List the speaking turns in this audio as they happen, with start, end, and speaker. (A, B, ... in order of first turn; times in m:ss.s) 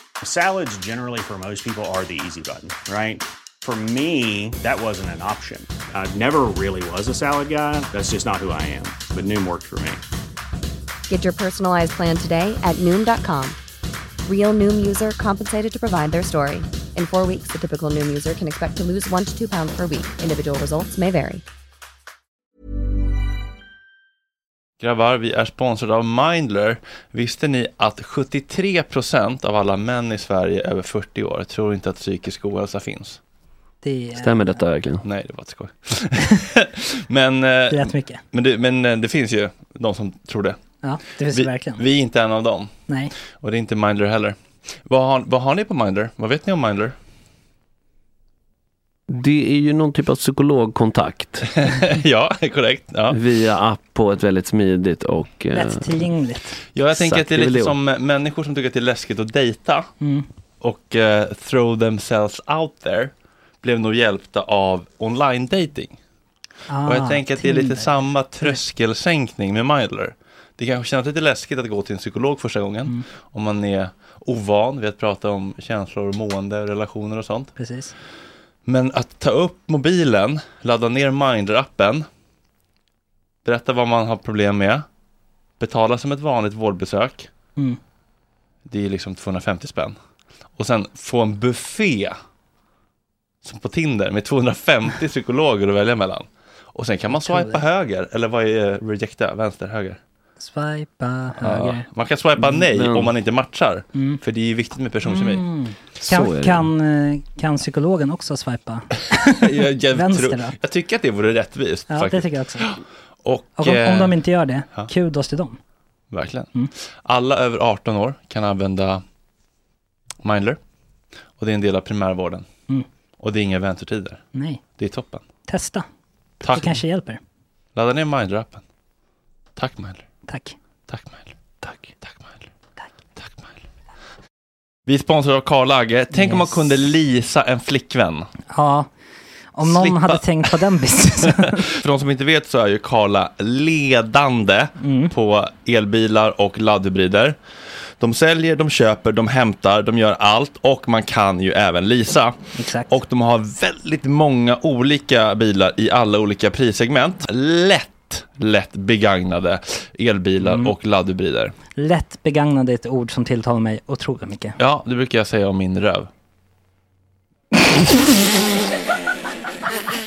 0:00.2-0:10.0 A
0:11.1-0:13.6 B
0:14.2-0:21.4 B
0:24.8-0:33.2 C
0:33.8-0:34.6 D
0:34.2-0:35.0 E
0:35.0-0:40.6 C
0:37.7-0:38.2 D
0:40.8-0:41.8 D
0:41.1-0:42.7 C
0:42.9-0:43.1 D
0:43.3-0:47.0 C
0:49.1-0:51.5 E
0:51.5-0:53.2 C
0:53.1-0:56.1 E
0:55.5-0:56.6 D
0:56.7-0:59.9 C
0:56.9-0:57.8 E
1:00.0-1:00.3 D
1:00.6-1:06.0 C
1:06.7-1:08.6 D
1:06.8-1:17.5 C
1:17.6-1:17.9 D
1:18.7-1:22.1 C
1:23.4-1:24.8 C
1:25.6-1:27.3 C
1:28.7-1:30.0 C
1:30.6-1:32.2 C
1:33.4-1:40.0 C
1:37.1-1:37.6 D
1:40.4-1:41.9 D
1:41.4-1:45.4 C
1:42.6-1:43.1 E
1:43.9-1:44.2 D
1:45.0-1:50.6 D
1:46.0-1:46.7 E
1:49.4-1:54.2 C
1:51.9-1:52.7 D
1:53.6-1:55.6 D
1:56.1-1:59.0 C
2:00.2-2:00.6 C
2:01.4-2:02.4 C
2:03.2-2:04.2 C
2:04.3-2:04.6 D
2:04.8-2:05.2 C
2:05.5-2:05.9 D
2:06.4-2:06.8 C
2:06.5-2:07.2 D
2:07.8-2:08.6 C
2:09.6-2:10.0 C
2:10.3-2:10.6 D
2:10.9-2:11.3 C
2:12.0-2:12.5 C
2:13.2-2:13.5 C
2:14.9-2:18.3 C
2:16.1-2:16.6 D
2:18.5-2:18.9 D
2:19.5-2:21.6 D
2:19.6-2:20.6 C
2:21.3-2:27.4 C
2:24.8-2:25.1 D
2:28.0-2:32.4 C
2:32.6-2:32.9 D
2:32.9-2:41.5 C
2:40.4-2:40.7 D
2:41.8-2:44.6 D
2:44.6-2:46.1 C